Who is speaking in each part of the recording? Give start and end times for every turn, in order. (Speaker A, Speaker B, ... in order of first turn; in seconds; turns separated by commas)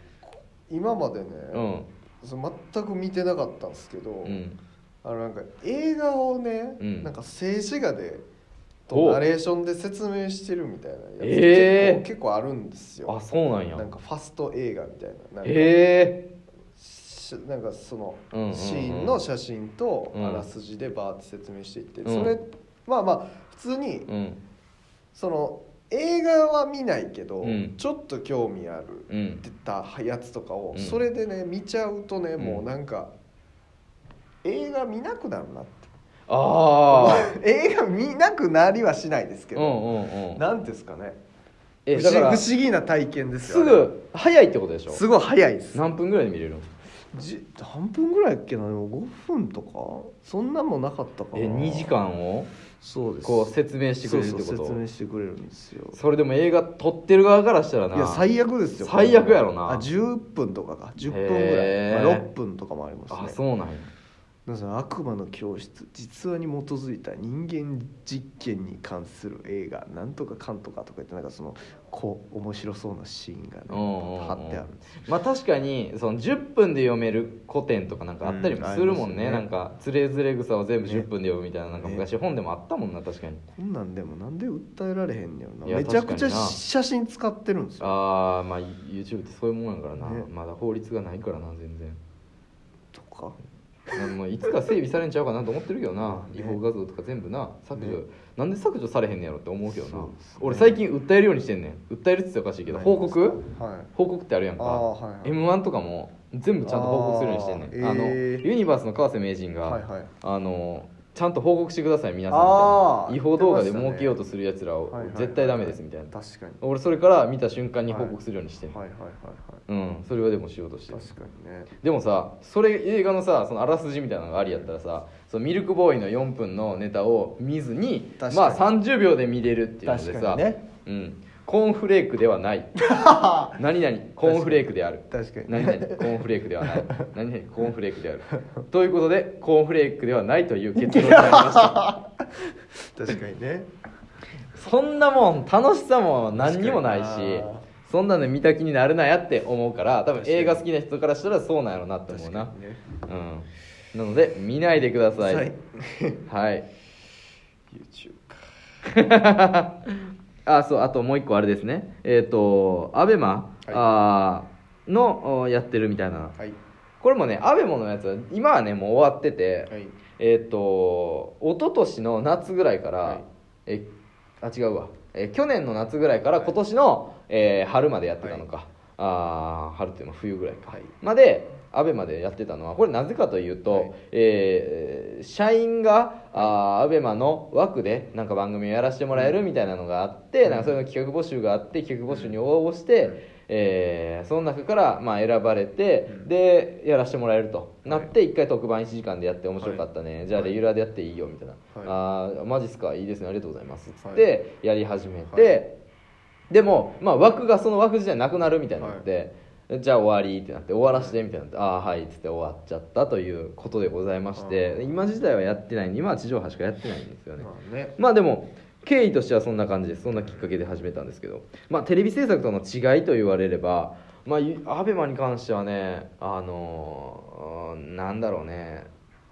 Speaker A: 0.2-1.6, Speaker B: 1.5-1.9, Speaker A: 2.2-4.4, Speaker B: 4.2-4.6, Speaker A: 5.0-8.3, Speaker B: 6.8-7.1, Speaker A: 8.9-13.2, Speaker B: 8.9-9.2, Speaker B: 11.2-12.0, Speaker B: 13.1-13.8, Speaker A: 13.7-15.8, Speaker B: 15.4-16.2, Speaker A: 16.8-24.1, Speaker B: 18.3-19.2, Speaker B: 20.1-20.5, Speaker B: 22.1-22.4, Speaker B: 24.1-24.4, Speaker A: 25.1-33.1, Speaker B: 27.4-27.8, Speaker B: 29.1-29.4, Speaker B: 30.7-31.0, Speaker B: 32.4-32.6, Speaker A: 34.4-35.9, Speaker B: 36.3-37.3, Speaker A: 36.9-39.8, Speaker B: 39.5-40.4, Speaker A: 40.4-41.2, Speaker B: 41.9-42.5, Speaker A: 41.9-43.9, Speaker B: 43.4-45.0, Speaker A: 44.9-45.9, Speaker B: 45.7-46.7, Speaker A: 47.1-51.9, Speaker B: 51.3-52.5, Speaker A: 52.8-56.0, Speaker B: 53.2-54.8, Speaker B: 55.9-58.2, Speaker A: 57.9-63.4, Speaker B: 58.8-59.9, Speaker B: 61.1-62.3, Speaker B: 63.1-63.9, Speaker A: 64.5-74.9, Speaker B: 73.7-83.4, Speaker A: 78.2-79.5, Speaker A: 80.8-81.1, Speaker A: 81.8-82.1, Speaker A: 83.5-88.0, Speaker B: 85.7-86.6, Speaker B: 87.8-92.0, Speaker A: 90.0-90.3, Speaker A: 92.9-93.3, Speaker B: 94.0-103.4, Speaker A: 96.0-96.6, Speaker A: 97.8-98.0, Speaker A: 99.7-100.8, Speaker A: 102.7-103.9, Speaker B: 104.0-118.8, Speaker A: 104.6-105.4, Speaker A: 106.6-108.5, Speaker A: 109.6-110.1, Speaker A: 112.3-114.2, Speaker A: 114.9-116.6, Speaker A: 117.9-119.6, Speaker B: 119.7-121.0, Speaker A: 120.9-121.7, Speaker B: 121.8-132.8, Speaker A: 128.2-128.7, Speaker A: 129.8-130.6, Speaker A: 132.8-133.6, Speaker B: 133.5-141.9, Speaker A: 134.2-137.1, Speaker A: 140.8-142.0, Speaker A: 142.9-143.7, Speaker B: 144.6-152.5, Speaker A: 146.4-147.7, Speaker A: 150.2-150.7, Speaker A: 152.1-152.8, Speaker B: 153.0-155.5, Speaker A: 155.2-156.3, Speaker B: 156.3-156.7, Speaker A: 157.7-158.4, Speaker B: 158.8-166.3, Speaker B: 167.0-173.9, Speaker A: 169.7-170.0, Speaker B: 174.4-205.8, Speaker A: 178.2-178.5, Speaker A: 180.7-180.9, Speaker A: 183.7-183.9, Speaker A: 189.1-189.4, Speaker A: 190.4-190.8, Speaker A: 192.1-192.4, Speaker A: 197.9-198.1, Speaker A: 199.6-200.5, Speaker A: 204.0-204.3, Speaker B: 206.5-228.9, Speaker A: 208.8-209.1, Speaker A: 214.3-214.9, Speaker A: 217.4-218.0, Speaker A: 220.2-220.5